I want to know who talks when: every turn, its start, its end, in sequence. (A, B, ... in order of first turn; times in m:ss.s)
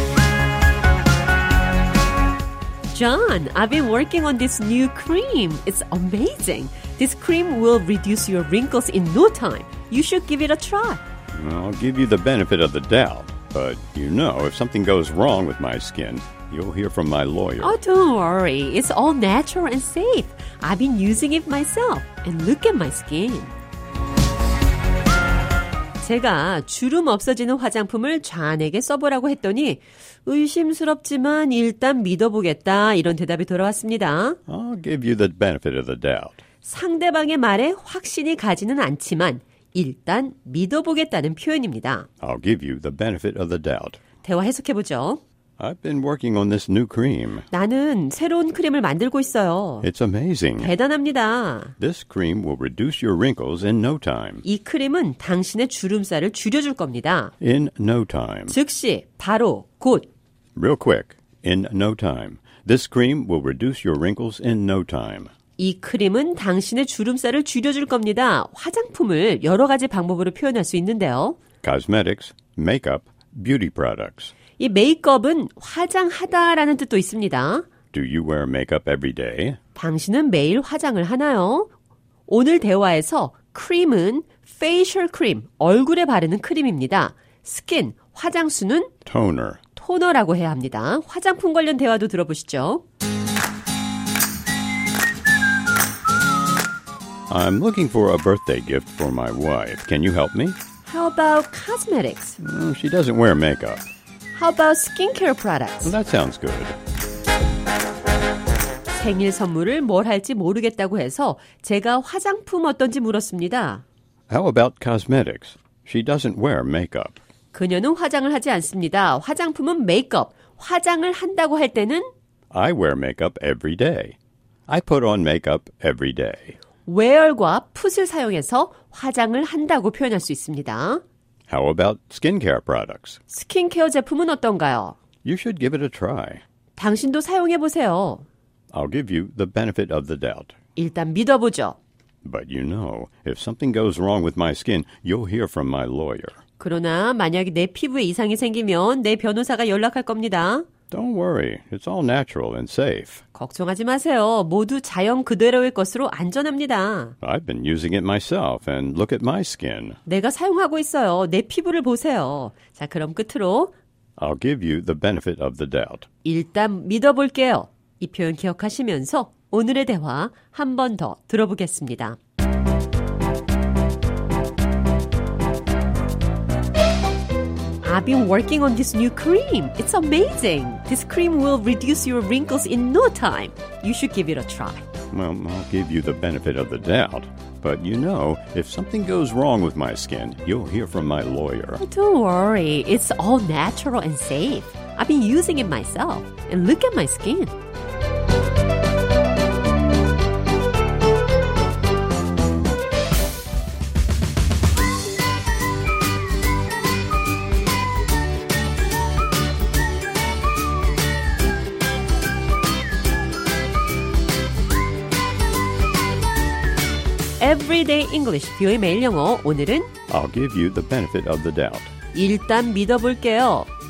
0:02.9-0:11.0 A
0:11.3-0:17.8 B
0:17.6-0:23.5 A
0:26.0-0:34.4 A
0:34.5-0:36.4 B
0:36.6-0:42.1 A
0:42.2-0:44.0 B
0:44.2-0:45.2 A
0:45.6-0:47.5 B
0:47.5-0:49.9 A
0:49.8-0:50.7 B
0:50.6-0:51.8 A
0:51.8-0:54.4 B
0:54.4-0:57.3 A
0:57.4-0:58.6 B
0:58.5-1:00.1 A
1:00.6-1:05.3 B
1:05.6-1:11.4 A
1:11.6-1:14.3 B
1:14.6-1:17.7 A
1:17.9-1:19.6 B
1:19.8-1:21.7 A
1:22.3-1:28.9 A
1:29.1-1:29.6 B
1:29.8-1:32.8 A
1:37.3-1:40.6 B
1:40.9-1:42.4 A
1:42.4-1:43.8 B
1:44.3-1:46.0 A
1:45.8-1:46.8 B
1:48.9-1:53.8 A
1:54.3-1:57.2 B
1:57.5-2:02.1 A
2:02.5-2:04.2 B
2:04.7-2:06.6 B
2:06.9-2:11.0 A
2:11.5-2:13.2 B
2:13.3-2:15.0 A
2:15.2-2:16.4 B
2:16.8-2:18.3 A
2:18.7-2:20.6 B
2:20.8-2:21.8 A
2:22.2-2:26.4 B
2:26.6-2:30.7 A
2:30.9-2:33.2 B
2:33.4-2:37.2 A
2:37.2-2:40.0 B
2:40.1-2:43.7 A
2:44.2-2:46.1 B
2:46.2-2:52.2 A
2:57.8-3:04.8 A
3:05.1-3:11.8 B
3:11.8-3:17.6 A
3:37.4-3:39.9 A
3:40.1-3:41.9 B
3:42.1-3:43.7 A